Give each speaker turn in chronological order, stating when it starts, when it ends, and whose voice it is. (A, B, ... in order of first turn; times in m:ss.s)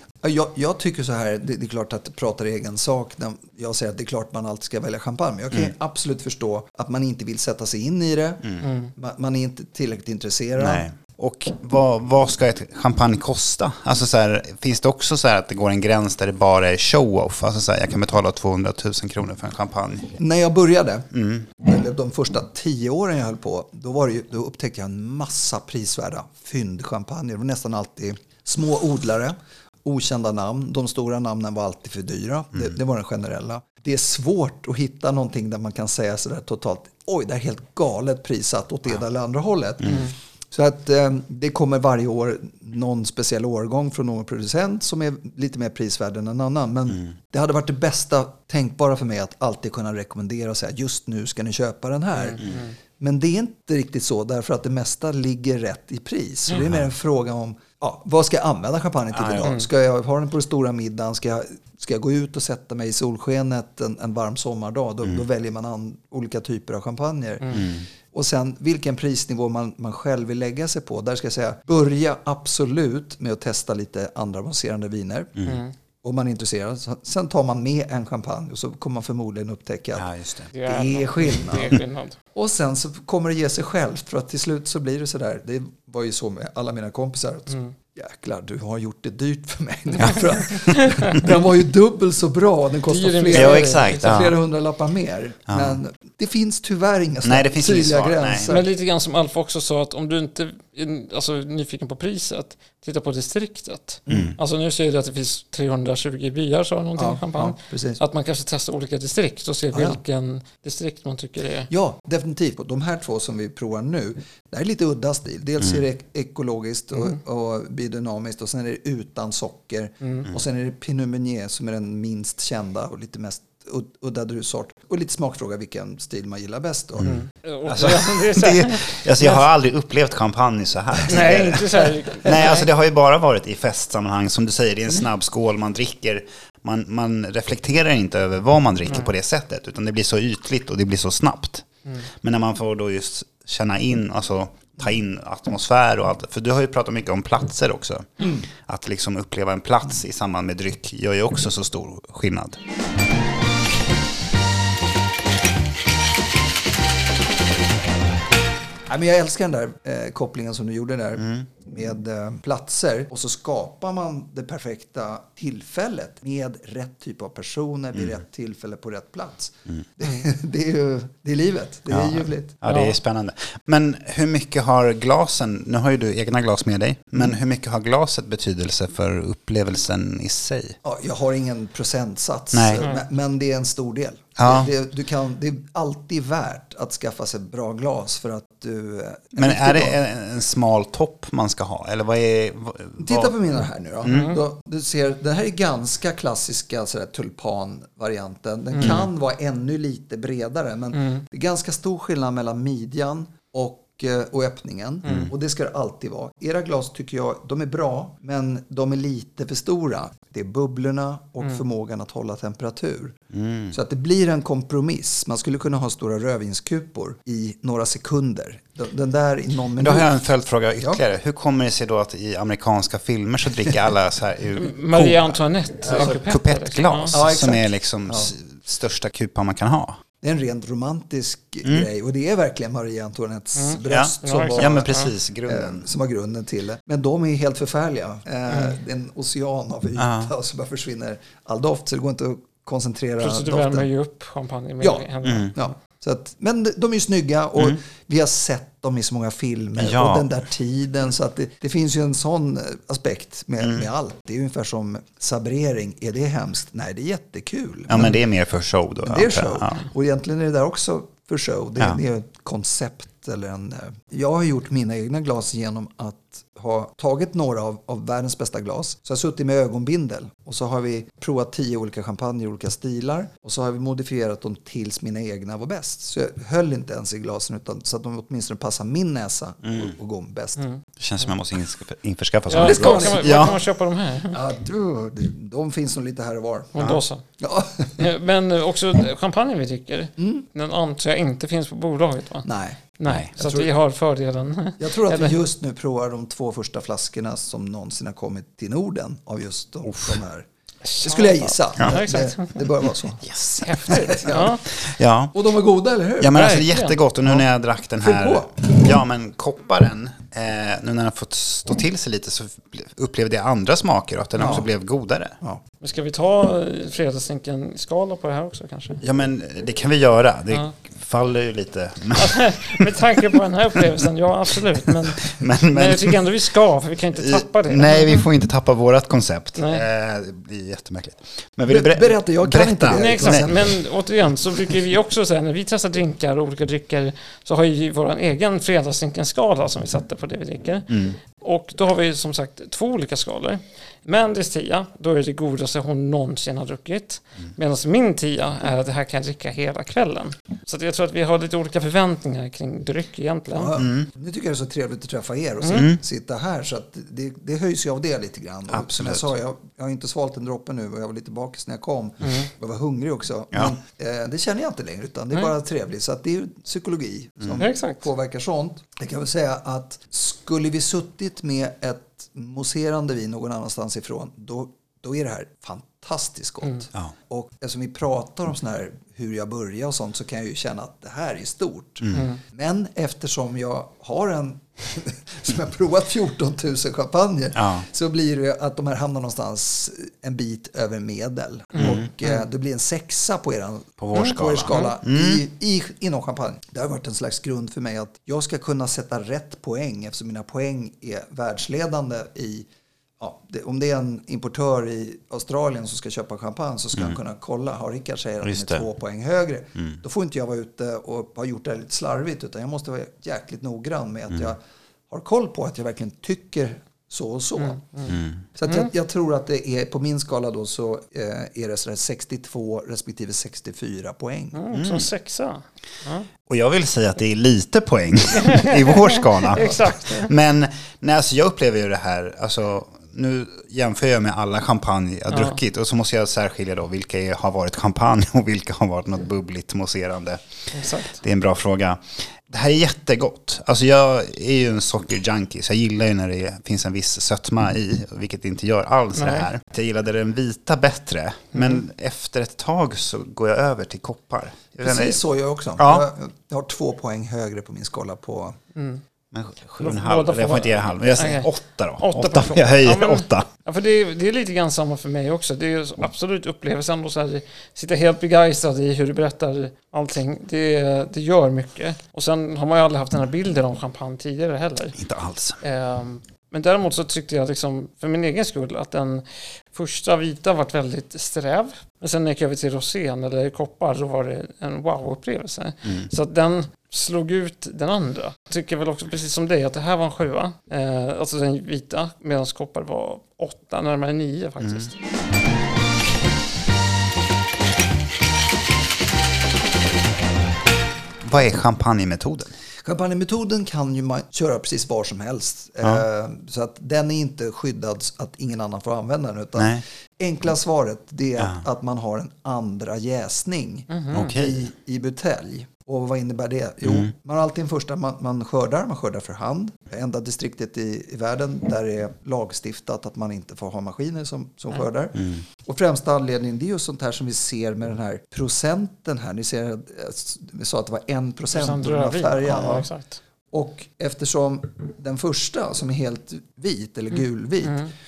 0:00.2-0:10.8 A
0:08.6-0:08.9 B
0:10.6-0:20.2 C
0:20.2-1:15.4 A
0:21.1-0:21.5 C
0:39.9-0:40.1 B
0:52.2-0:52.7 B
0:56.6-0:56.9 C
0:59.1-0:59.6 C
1:07.4-1:07.7 B
1:07.5-1:07.9 C
1:15.4-1:15.7 B
1:16.0-1:20.1 A
1:20.0-1:20.5 C
1:20.5-1:22.2 B
1:20.6-1:21.8 A
1:22.4-1:38.7 A
1:27.5-1:27.7 B
1:30.0-1:30.3 C
1:30.6-1:31.2 B
1:32.9-1:34.1 B
1:33.3-1:34.4 C
1:35.5-1:35.8 C
1:37.2-1:38.6 C
1:38.5-1:51.7 B
1:44.1-1:44.4 C
1:47.0-1:48.0 A
1:49.7-1:50.0 A
1:51.7-2:07.1 A
2:00.0-2:00.3 B
2:07.0-2:32.6 C
2:07.0-2:09.4 B
2:11.1-2:12.7 B
2:38.9-2:52.6 A
2:41.2-2:41.5 C
2:51.9-3:00.8 C
2:52.6-2:53.0 B
3:00.8-3:10.0 A
3:02.5-3:02.9 C
3:02.8-3:03.1 B
3:04.4-3:04.7 C
3:09.4-3:13.4 C
3:13.0-3:33.2 A
3:14.0-3:14.4 C
3:14.1-3:14.4 B
3:18.7-3:19.0 B
3:18.8-3:19.1 C
3:20.9-3:21.2 B
3:25.0-3:25.3 B
3:25.0-3:25.3 C
3:33.3-3:33.8 C
3:33.7-3:40.2 A
3:39.8-3:50.0 C
3:44.6-3:47.2 B
3:45.9-3:46.2 A
3:47.1-3:48.3 A
3:50.2-4:03.9 A
3:53.6-3:55.1 B
3:53.9-3:55.9 C
3:58.5-3:58.8 B
4:00.0-4:00.3 C
4:03.2-4:05.7 B
4:04.8-4:18.1 A
4:05.2-4:05.5 C
4:09.8-4:10.3 C
4:13.6-4:13.9 C
4:17.9-4:19.8 C
4:19.0-4:40.6 A
4:39.6-4:39.9 C
4:41.0-4:43.6 C
4:42.5-4:44.4 B
4:42.6-4:43.6 A
4:44.3-4:46.8 A
4:46.7-4:47.2 B
4:47.4-4:48.1 A
4:48.0-4:55.4 B
4:50.2-4:50.5 A
4:52.4-4:52.8 A
4:53.4-4:53.7 A
4:54.8-5:00.5 A
4:59.8-5:00.2 C
5:00.8-5:02.6 B
5:01.0-5:06.4 A
5:03.6-5:04.6 B
5:04.8-5:05.3 C
5:06.2-5:15.4 C
5:06.3-5:07.0 B
5:08.0-5:08.9 A
5:14.4-5:14.7 A
5:15.8-5:19.0 B
5:19.0-5:23.1 C
5:22.2-5:28.2 B
5:25.2-5:26.3 C
5:27.2-5:33.6 C
5:29.6-5:29.8 B
5:31.7-5:33.7 A
5:33.0-5:53.8 B
5:40.9-5:41.2 C
5:53.5-6:42.7 A
5:53.8-5:54.1 C
5:55.6-5:55.9 B
5:55.7-5:56.0 C
5:58.7-5:59.3 C
6:02.2-6:02.5 B
6:07.6-6:08.0 B
6:22.0-6:22.3 C
6:22.1-6:22.4 B
6:27.6-6:27.9 C
6:31.8-6:32.4 B
6:31.8-6:32.1 C
6:34.0-6:35.4 C
6:34.1-6:35.0 B
6:43.2-6:57.9 A
6:48.4-6:48.9 C
6:57.6-6:58.9 B
6:58.1-6:58.4 C
6:58.5-7:04.6 A
7:04.5-7:06.3 B
7:04.7-7:05.1 C
7:06.5-7:35.2 C
7:08.5-7:10.3 B
7:15.3-7:15.6 B
7:20.7-7:21.2 B
7:29.2-7:29.5 B
7:31.5-7:31.8 B
7:34.8-7:38.6 A
7:35.8-7:36.1 C
7:38.8-7:39.0 B
7:39.3-7:43.5 C
7:39.8-7:55.0 B
7:55.0-7:55.6 C
7:55.6-8:15.0 B
8:14.6-8:14.9 C
8:21.2-8:22.6 C
8:22.8-8:52.9 A
8:29.6-8:29.8 C
8:31.4-8:31.6 C
8:33.9-8:34.3 B
8:34.1-8:34.6 C
8:36.8-8:37.1 C
8:45.2-8:45.4 C
8:51.5-8:53.2 B
8:53.5-8:57.8 A
8:57.6-8:57.9 B